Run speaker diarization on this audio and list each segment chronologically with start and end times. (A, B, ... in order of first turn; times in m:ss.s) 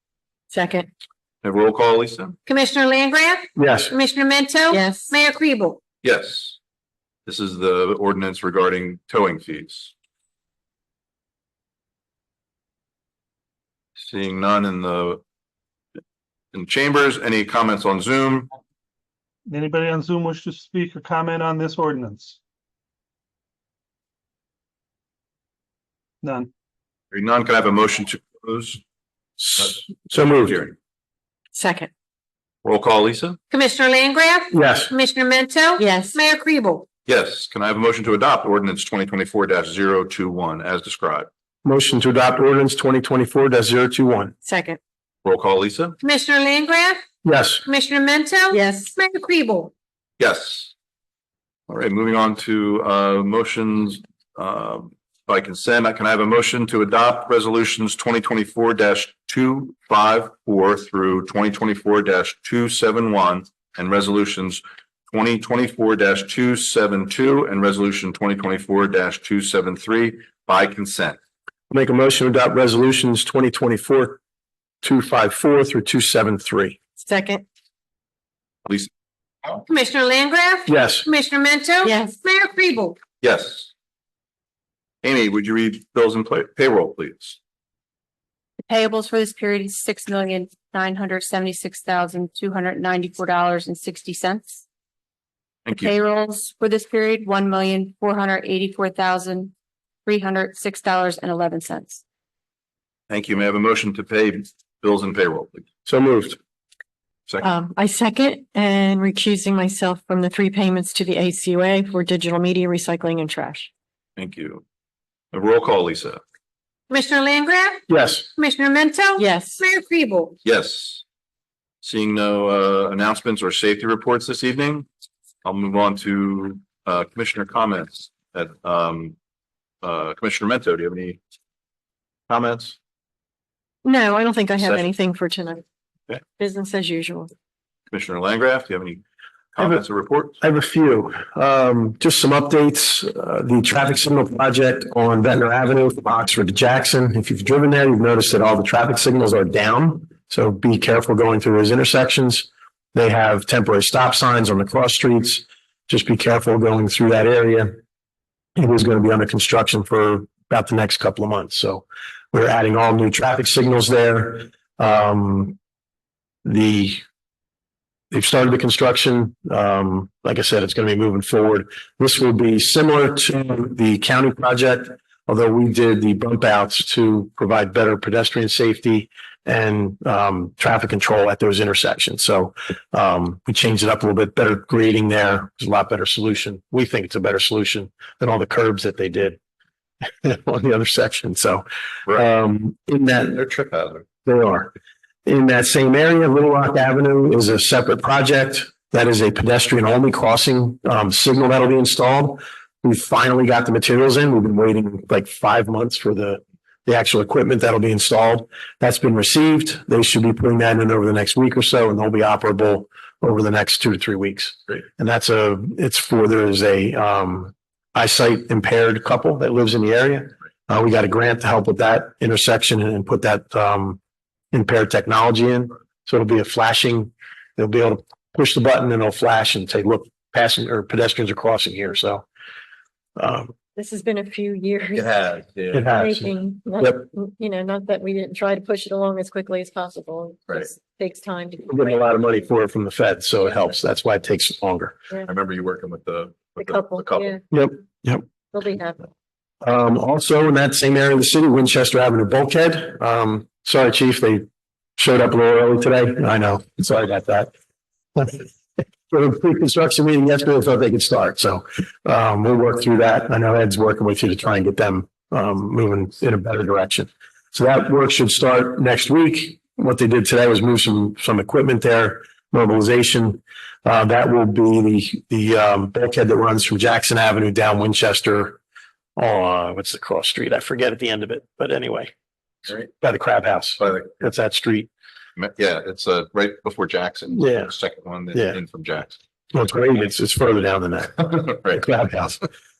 0:00.5-0:00.9 A
0:01.4-0:02.4 B
0:02.5-0:05.8 C
0:03.6-0:03.9 D
0:04.7-0:05.1 A
0:06.0-0:06.6 B
0:07.3-0:09.9 B
0:14.0-0:15.2 B
0:16.5-0:18.5 B
0:19.5-0:22.4 E
0:26.2-0:26.5 E
0:27.1-0:28.8 B
0:29.4-0:30.6 D
0:29.6-0:30.8 B
0:31.5-0:31.9 A
0:32.6-0:33.4 B
0:33.5-0:36.8 C
0:34.5-0:34.9 D
0:35.8-0:36.2 A
0:37.1-0:41.3 B
0:41.6-0:44.4 D
0:44.4-0:44.8 A
0:45.2-0:46.0 B
0:46.0-0:47.0 C
0:47.2-0:47.6 D
0:47.6-0:49.7 C
0:48.5-0:48.9 A
0:50.2-0:50.7 B
0:51.7-1:11.2 B
1:11.7-1:14.2 D
1:14.8-1:16.8 D
1:17.0-1:17.4 A
1:19.7-1:23.0 C
1:20.7-1:21.1 D
1:21.8-1:22.1 A
1:23.2-1:23.7 B
1:25.0-1:27.4 B
1:28.6-1:34.6 F
1:35.7-1:35.9 B
1:35.7-1:39.5 F
1:40.1-1:42.0 F
1:43.1-1:45.7 B
1:45.9-1:46.4 D
1:47.4-1:53.7 A
1:54.2-1:54.6 B
1:55.3-1:56.2 B
1:56.9-1:57.9 C
1:57.9-1:58.3 D
1:58.4-2:00.4 C
1:59.2-1:59.6 A
2:00.4-2:01.0 B
2:01.8-2:04.9 B
2:05.4-2:09.2 B
2:09.8-2:11.2 B
2:12.3-2:12.8 B
2:13.8-2:15.6 A
2:16.4-2:17.3 A
2:17.9-2:19.0 B
2:19.5-2:20.4 B
2:20.4-2:37.8 D
2:38.6-2:45.6 D
2:46.4-2:47.0 D
2:48.1-3:09.4 D
3:10.0-3:13.4 D
3:13.3-3:14.1 B
3:14.2-3:14.7 D
3:15.3-3:44.0 D
3:44.5-3:52.3 D
3:53.2-3:53.5 D
3:53.8-3:55.2 A
3:54.9-3:55.9 B
3:55.7-3:57.1 D
3:55.8-4:02.1 A
4:01.6-4:05.0 D
4:05.2-4:07.4 B
4:06.6-4:07.4 A
4:07.5-4:08.2 D
4:08.5-4:09.0 A
4:09.6-4:14.5 D
4:15.0-4:17.5 D
4:18.2-4:18.5 D
4:19.1-4:38.6 D
4:39.2-4:42.1 D
4:43.0-4:44.9 D
4:45.4-4:49.2 B
4:47.3-4:47.7 D
4:49.5-4:52.4 D
4:51.2-4:52.0 B